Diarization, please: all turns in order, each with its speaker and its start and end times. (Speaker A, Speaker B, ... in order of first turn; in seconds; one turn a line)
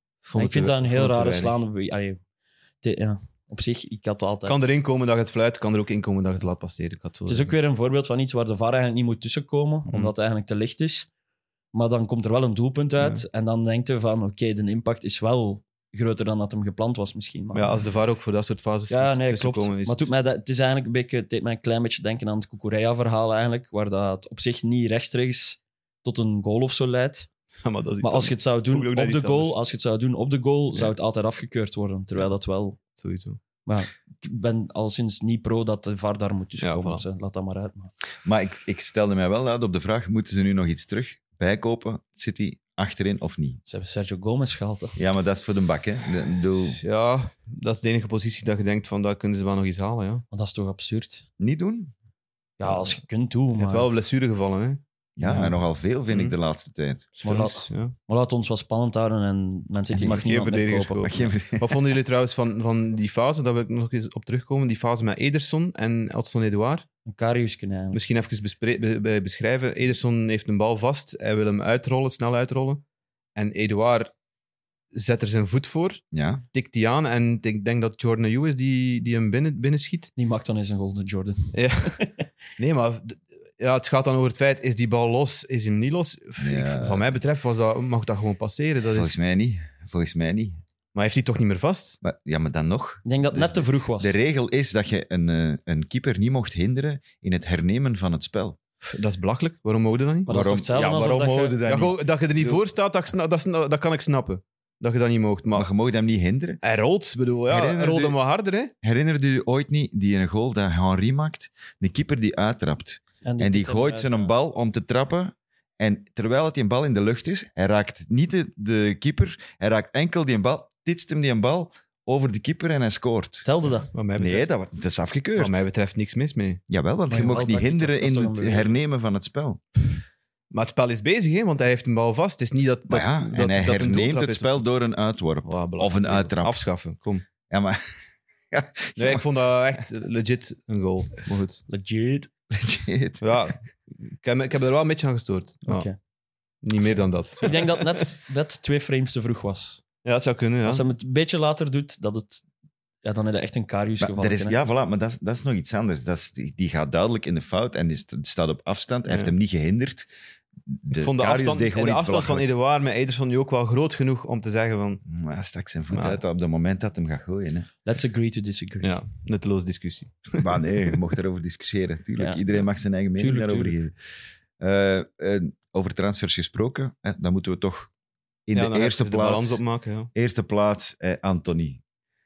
Speaker A: 0.2-1.6
Speaker B: 0.4-2.2
Speaker B: 2.8-4.7
Speaker A: 4.5-7.5
Speaker B: 7.3-11.1
Speaker A: 9.9-10.1
Speaker B: 11.7-17.8
Speaker A: 17.5-20.1
Speaker B: 18.9-27.3
Speaker A: 27.6-29.6
Speaker B: 28.0-32.8
Speaker A: 33.0-33.4
Speaker B: 33.6-37.9
Speaker A: 36.6-37.0
Speaker C: 38.2-43.6
Speaker B: 43.7-45.0
Speaker C: 45.0-46.8
Speaker A: 46.6-50.2
Speaker B: 50.3-51.2
Speaker C: 51.4-51.9
Speaker B: 52.6-53.9
Speaker A: 53.5-56.4
Speaker C: 55.2-57.1
Speaker A: 57.2-57.9
Speaker B: 57.2-61.2
Speaker A: 60.0-66.9
Speaker C: 61.0-61.8
Speaker B: 67.1-68.0
Speaker A: 67.9-72.8
Speaker A: 73.3-74.1
Speaker A: 74.9-80.1
Speaker C: 76.1-76.4
Speaker B: 80.2-82.1
Speaker A: 81.5-82.0
Speaker A: 82.6-89.1
Speaker C: 86.4-87.2
Speaker C: 88.8-90.6
Speaker A: 90.9-92.0
Speaker C: 92.0-98.6
Speaker B: 93.0-94.1
Speaker A: 98.9-100.3
Speaker B: 100.3-101.6
Speaker C: 100.3-102.6
Speaker A: 101.6-105.7
Speaker C: 105.5-106.6
Speaker A: 106.6-108.7
Speaker C: 107.5-108.2
Speaker C: 108.8-125.6
Speaker B: 113.2-114.3
Speaker B: 123.4-123.9
Speaker A: 123.9-124.5
Speaker A: 125.4-126.6
Speaker C: 126.7-129.6
Speaker B: 127.1-128.7
Speaker A: 130.5-134.7
Speaker C: 132.9-136.6
Speaker A: 135.4-137.2
Speaker C: 137.5-138.0
Speaker C: 138.5-139.3
Speaker A: 139.0-141.6
Speaker B: 141.7-142.3
Speaker C: 142.5-143.4
Speaker A: 143.2-145.9
Speaker B: 145.7-145.9
Speaker A: 146.6-148.0
Speaker B: 147.4-149.8
Speaker A: 150.0-150.8
Speaker B: 150.6-152.4
Speaker B: 153.0-154.6
Speaker C: 154.0-160.1
Speaker C: 160.7-162.5
Speaker A: 160.9-165.0
Speaker C: 165.1-167.7
Speaker A: 165.9-166.2
Speaker B: 167.8-169.0
Speaker A: 168.8-170.9
Speaker C: 170.4-173.9
Speaker B: 172.2-172.4
Speaker B: 173.2-173.8
Speaker C: 174.6-177.9
Speaker C: 178.5-179.6
Speaker A: 178.5-180.1
Speaker C: 180.1-181.8